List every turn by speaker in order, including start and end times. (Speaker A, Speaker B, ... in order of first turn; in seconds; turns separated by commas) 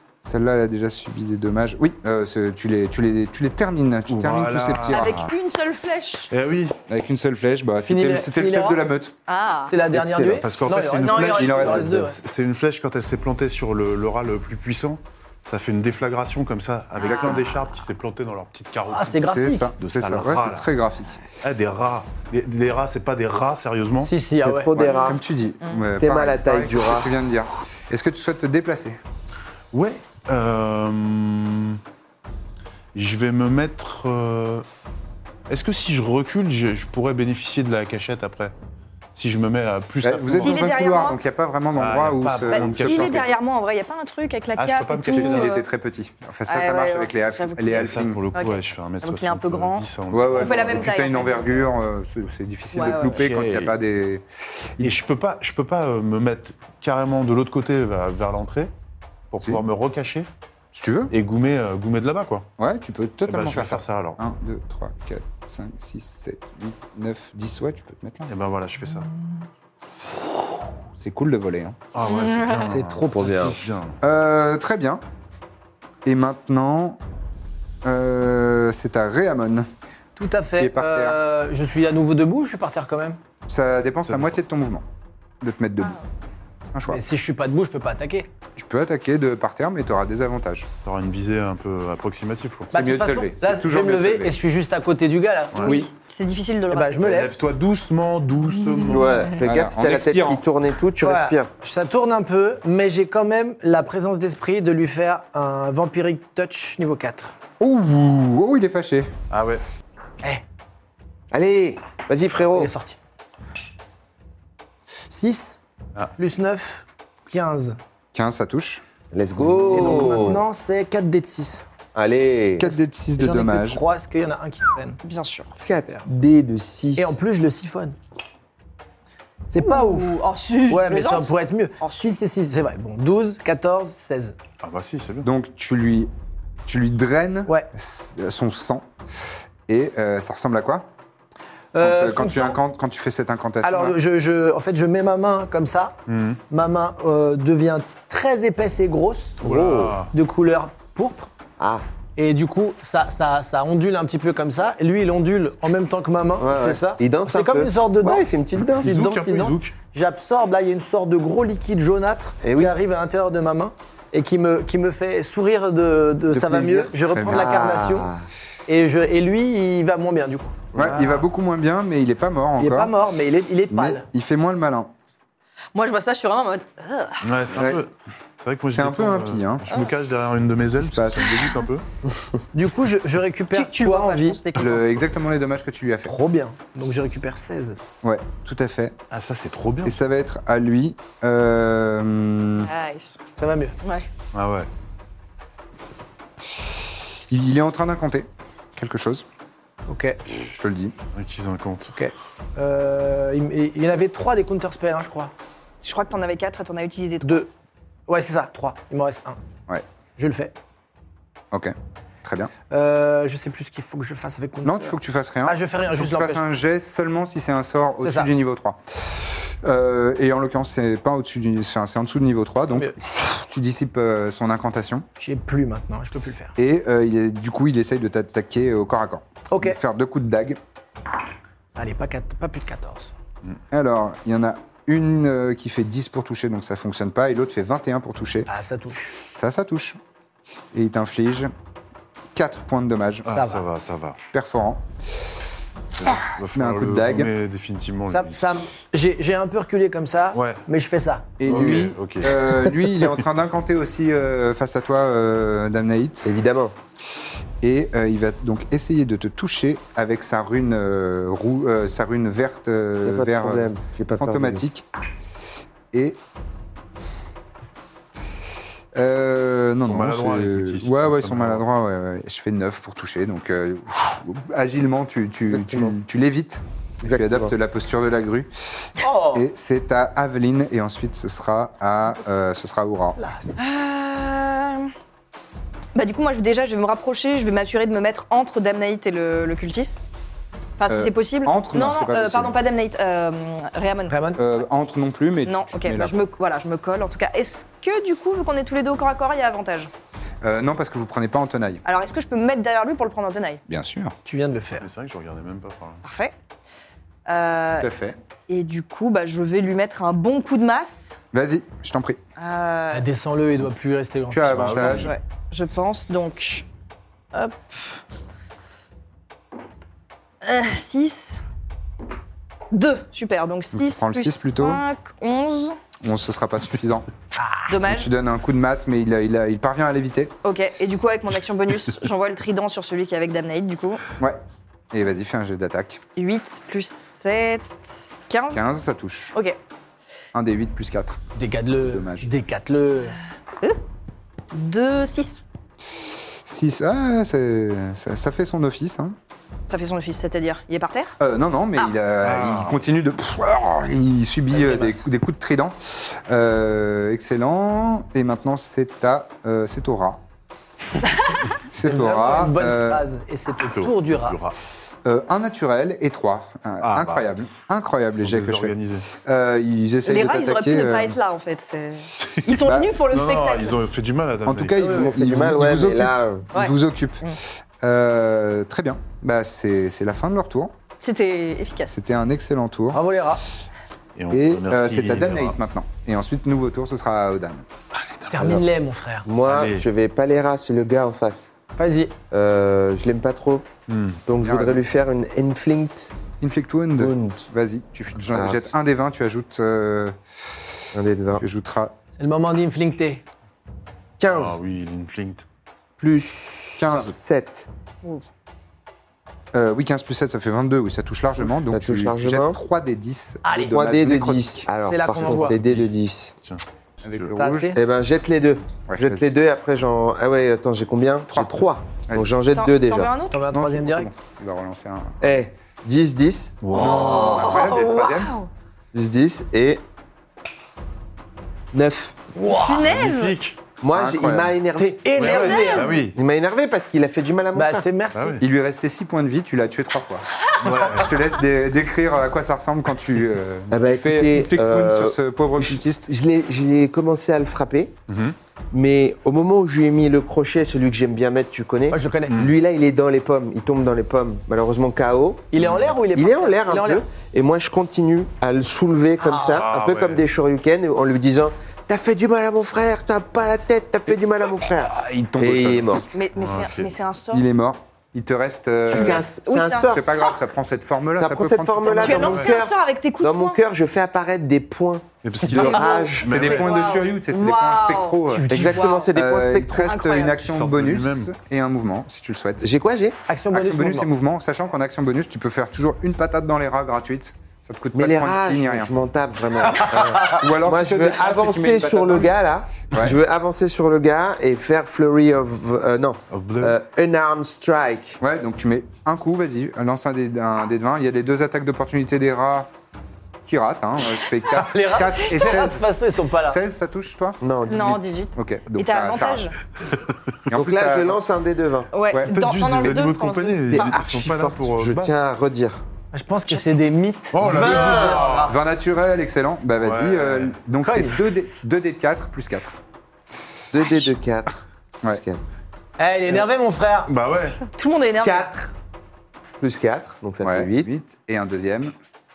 Speaker A: 0.2-5.2, Speaker B: 4.1-5.3, Speaker C: 4.9-6.3, Speaker B: 6.3-6.8, Speaker A: 6.9-9.2, Speaker D: 7.9-8.8, Speaker C: 9.3-9.7, Speaker D: 9.7-12.2, Speaker E: 9.9-10.5, Speaker B: 10.4-20.7, Speaker C: 11.1-11.6, Speaker A: 11.3-12.0, Speaker C: 17.0-17.4, Speaker D: 18.9-19.7, Speaker A: 19.3-21.2, Speaker B: 21.4-24.1, Speaker D: 24.0-24.8, Speaker E: 24.4-25.2, Speaker A: 24.8-29.0, Speaker C: 24.8-25.8, Speaker E: 26.0-27.1, Speaker B: 29.7-31.8, Speaker B: 33.0-34.7, Speaker B: 35.5-38.5, Speaker B: 39.1-40.6, Speaker A: 40.0-43.3, Speaker C: 40.3-41.2, Speaker B: 41.8-43.3, Speaker C: 42.5-45.6, Speaker B: 44.6-45.5, Speaker A: 45.0-48.2, Speaker C: 46.5-51.7, Speaker B: 47.8-51.1, Speaker A: 50.1-54.2, Speaker C: 52.7-53.2, Speaker B: 53.1-53.8, Speaker B: 54.8-58.7, Speaker B: 59.3-60.3, Speaker A: 60.7-61.1, Speaker B: 61.1-62.5, Speaker A: 62.6-68.3, Speaker B: 63.3-64.2, Speaker B: 68.3-69.1, Speaker A: 71.0-71.8, Speaker B: 71.9-74.0, Speaker C: 72.0-72.7, Speaker D: 72.6-73.6, Speaker E: 73.1-73.6, Speaker A: 74.0-75.0, Speaker A: 76.0-77.0, Speaker A: 77.8-79.7, Speaker D: 80.2-83.2, Speaker A: 80.6-81.2, Speaker A: 83.5-84.8, Speaker B: 84.1-84.4, Speaker A: 85.4-86.0, Speaker A: 86.7-87.0, Speaker D: 86.9-88.3, Speaker A: 88.6-90.7, Speaker B: 90.8-92.7, Speaker A: 92.7-94.4, Speaker D: 92.7-95.8, Speaker C: 95.6-97.1, Speaker D: 96.7-97.3, Speaker B: 97.0-99.3, Speaker E: 98.8-101.5, Speaker A: 99.4-100.5, Speaker D: 101.0-107.4, Speaker A: 107.6-109.1, Speaker B: 109.3-109.6, Speaker E: 111.3-112.7, Speaker D: 112.5-113.0, Speaker D: 115.1-115.6, Speaker D: 116.2-117.8, Speaker A: 118.1-118.8, Speaker E: 119.1-120.4, Speaker D: 119.7-121.7, Speaker E: 122.0-122.7, Speaker A: 122.6-123.8, Speaker D: 123.2-125.0, Speaker C: 125.0-125.5, Speaker E: 125.6-127.2, Speaker D: 127.0-128.0, Speaker D: 129.5-134.4, Speaker C: 129.6-132.2, Speaker B: 134.6-135.3, Speaker A: 135.2-136.1, Speaker A: 136.7-138.9, Speaker A: 139.7-140.9, Speaker D: 141.7-142.6, Speaker A: 141.8-144.0, Speaker D: 143.6-146.0, Speaker B: 146.1-146.4, Speaker D: 146.5-151.3, Speaker B: 149.4-150.1, Speaker E: 149.4-150.0, Speaker E: 151.6-151.8, Speaker D: 152.2-168.1, Speaker E: 156.4-159.0, Speaker B: 158.8-159.7, Speaker E: 162.4-162.8, Speaker E: 166.3-168.3, Speaker A: 167.1-167.5, Speaker D: 168.7-170.7, Speaker E: 170.7-171.0, Speaker A: 170.8-172.9, Speaker B: 170.8-171.2, Speaker D: 172.6-174.1, Speaker A: 173.7-174.9, Speaker C: 175.8-177.3, Speaker B: 177.2-181.8, Speaker A: 177.5-177.8, Speaker A: 178.7-179.7, Speaker A: 180.8-181.5, Speaker D: 182.5-184.4, Speaker C: 183.5-184.9, Speaker A: 184.6-186.2, Speaker D: 186.1-187.8, Speaker A: 188.0-189.0, Speaker B: 189.1-190.0, Speaker A: 189.8-192.7, Speaker C: 192.6-193.2, Speaker D: 193.4-193.8, Speaker B: 194.3-194.7, Speaker A: 197.3-199.2, Speaker D: 199.9-200.4, Speaker A: 200.5-201.0, Speaker B: 201.1-202.0, Speaker D: 201.9-205.3, Speaker C: 205.8-207.5, Speaker D: 207.2-207.5, Speaker D: 208.1-209.4, Speaker D: 210.2-210.6, Speaker A: 211.5-212.5, Speaker D: 212.7-216.4, Speaker A: 214.6-225.1, Speaker D: 218.0-218.3, Speaker D: 225.2-226.5, Speaker A: 226.6-230.6, Speaker D: 229.5-229.8, Speaker D: 231.8-233.1, Speaker A: 233.7-238.5, Speaker D: 238.5-239.1, Speaker A: 239.2-240.0, Speaker A: 240.7-241.5, Speaker A: 242.3-243.3, Speaker B: 243.2-244.2, Speaker D: 243.3-243.7, Speaker A: 244.3-244.8, Speaker B: 246.0-248.5, Speaker A: 246.0-247.3, Speaker D: 248.1-251.8, Speaker B: 250.3-250.6, Speaker A: 251.4-256.3, Speaker B: 251.4-252.7, Speaker E: 256.2-256.8, Speaker A: 257.6-264.9, Speaker E: 263.1-264.6, Speaker A: 265.9-266.2, Speaker A: 268.9-278.5, Speaker B: 269.8-271.6, Speaker E: 275.5-275.9, Speaker E: 277.0-277.5, Speaker D: 279.0-279.5, Speaker A: 279.3-283.2, Speaker D: 283.2-283.6, Speaker C: 283.6-284.9, Speaker C: 285.9-290.1, Speaker C: 290.8-294.1, Speaker A: 290.9-292.6, Speaker D: 294.1-294.4, Speaker A: 294.4-296.2, Speaker C: 295.5-299.9, Speaker A: 300.4-301.8, Speaker C: 301.9-303.6, Speaker A: 303.7-304.1, Speaker D: 304.2-304.9, Speaker B: 304.8-306.0, Speaker C: 306.0-306.3, Speaker C: 307.3-307.9, Speaker A: 307.8-308.2, Speaker C: 308.5-311.2, Speaker A: 311.3-312.2, Speaker C: 312.4-313.1, Speaker D: 312.9-315.0, Speaker A: 314.3-315.1, Speaker B: 314.5-315.1, Speaker C: 314.8-316.6, Speaker C: 317.3-318.0, Speaker C: 320.4-321.4, Speaker C: 322.7-325.8, Speaker A: 323.8-324.8, Speaker A: 326.0-327.1, Speaker C: 327.7-328.1, Speaker A: 327.8-330.4, Speaker C: 330.4-334.0, Speaker A: 334.9-336.0, Speaker C: 336.2-338.6, Speaker A: 338.5-339.4, Speaker A: 340.3-341.2, Speaker D: 341.4-343.2, Speaker A: 341.8-342.3, Speaker C: 344.5-345.4, Speaker A: 346.4-349.2, Speaker C: 349.7-351.2, Speaker A: 351.2-360.2, Speaker B: 352.2-352.8, Speaker D: 354.5-355.1, Speaker C: 361.1-361.4, Speaker A: 361.7-363.1, Speaker D: 361.8-364.4, Speaker B: 363.6-364.6, Speaker A: 365.1-371.2, Speaker B: 366.8-367.3, Speaker B: 368.1-369.1, Speaker C: 370.1-373.8, Speaker B: 372.2-374.8, Speaker A: 372.6-372.9, Speaker A: 374.4-380.8, Speaker D: 374.8-375.2, Speaker E: 374.9-376.5, Speaker C: 376.5-377.4, Speaker C: 381.0-382.0, Speaker A: 381.9-383.0, Speaker D: 382.9-383.4, Speaker B: 384.1-385.6, Speaker A: 384.3-387.7, Speaker B: 387.9-388.6, Speaker D: 388.3-389.2, Speaker E: 389.2-391.5, Speaker B: 389.4-389.9, Speaker D: 391.8-392.1, Speaker E: 392.3-393.7, Speaker B: 393.9-394.2, Speaker E: 394.3-396.1, Speaker A: 394.4-394.8, Speaker A: 396.4-400.2, Speaker E: 397.0-397.5, Speaker E: 398.3-398.8, Speaker E: 400.9-401.4, Speaker A: 401.4-402.0, Speaker D: 402.2-403.2, Speaker E: 404.2-404.6, Speaker B: 404.3-405.4, Speaker E: 406.0-407.7, Speaker A: 406.8-407.2, Speaker A: 409.5-414.7, Speaker E: 411.7-412.6, Speaker D: 413.4-413.8, Speaker E: 413.6-416.3, Speaker D: 414.8-415.6, Speaker B: 415.2-415.9, Speaker B: 416.4-417.3, Speaker A: 417.0-417.8, Speaker D: 417.4-417.8, Speaker E: 417.7-423.1, Speaker A: 418.9-419.3, Speaker A: 422.1-422.4, Speaker C: 422.5-423.4, Speaker D: 423.3-424.1, Speaker A: 423.5-425.4, Speaker E: 425.2-426.6, Speaker B: 426.6-427.5, Speaker A: 426.7-428.3, Speaker C: 426.8-428.5, Speaker E: 428.9-429.8, Speaker E: 431.7-432.2, Speaker D: 432.4-432.9, Speaker C: 432.4-433.4, Speaker B: 432.8-433.6, Speaker E: 433.8-437.9, Speaker A: 433.9-434.6, Speaker D: 434.8-436.0, Speaker B: 435.2-436.2, Speaker C: 435.2-436.0, Speaker D: 437.5-438.4, Speaker B: 438.1-438.4, Speaker A: 438.4-446.1, Speaker B: 440.6-441.2, Speaker E: 443.7-448.0, Speaker B: 448.1-448.4, Speaker E: 448.7-466.1, Speaker D: 451.9-452.4, Speaker B: 452.3-452.6, Speaker D: 455.5-457.1, Speaker D: 459.2-459.6, Speaker B: 459.4-460.2, Speaker A: 464.8-466.0, Speaker C: 466.1-467.5, Speaker B: 466.4-466.9, Speaker A: 467.3-469.3, Speaker E: 468.9-470.2, Speaker C: 468.9-470.4, Speaker A: 469.8-472.5, Speaker E: 471.2-476.5, Speaker C: 472.0-473.6, Speaker B: 472.2-472.5, Speaker B: 475.2-476.7, Speaker D: 475.5-476.1, Speaker A: 475.5-482.7, Speaker C: 476.4-479.1, Speaker D: 478.3-479.0, Speaker E: 478.5-479.9, Speaker C: 479.8-480.4, Speaker B: 480.4-481.3, Speaker E: 482.6-483.2, Speaker D: 483.3-484.1, Speaker A: 483.5-488.9, Speaker E: 487.9-498.2, Speaker A: 489.8-492.3, Speaker A: 492.9-493.2, Speaker B: 496.3-496.8, Speaker A: 498.2-502.7, Speaker A: 503.4-507.8, Speaker D: 504.5-506.6, Speaker E: 507.4-508.0, Speaker C: 507.7-509.6, Speaker A: 508.4-509.5, Speaker A: 510.5-511.2, Speaker E: 510.5-511.9, Speaker C: 511.9-513.9, Speaker B: 512.3-515.1, Speaker E: 513.7-515.8, Speaker D: 516.1-518.6, Speaker C: 516.5-516.7, Speaker B: 517.3-518.5, Speaker E: 517.4-518.2, Speaker A: 518.4-522.8, Speaker B: 519.8-520.6, Speaker D: 520.8-521.3, Speaker E: 523.7-524.5, Speaker E: 525.1-525.4, Speaker D: 526.0-527.1, Speaker B: 527.1-527.6, Speaker C: 527.7-528.5, Speaker E: 528.2-528.7, Speaker E: 529.6-530.9, Speaker A: 530.4-532.0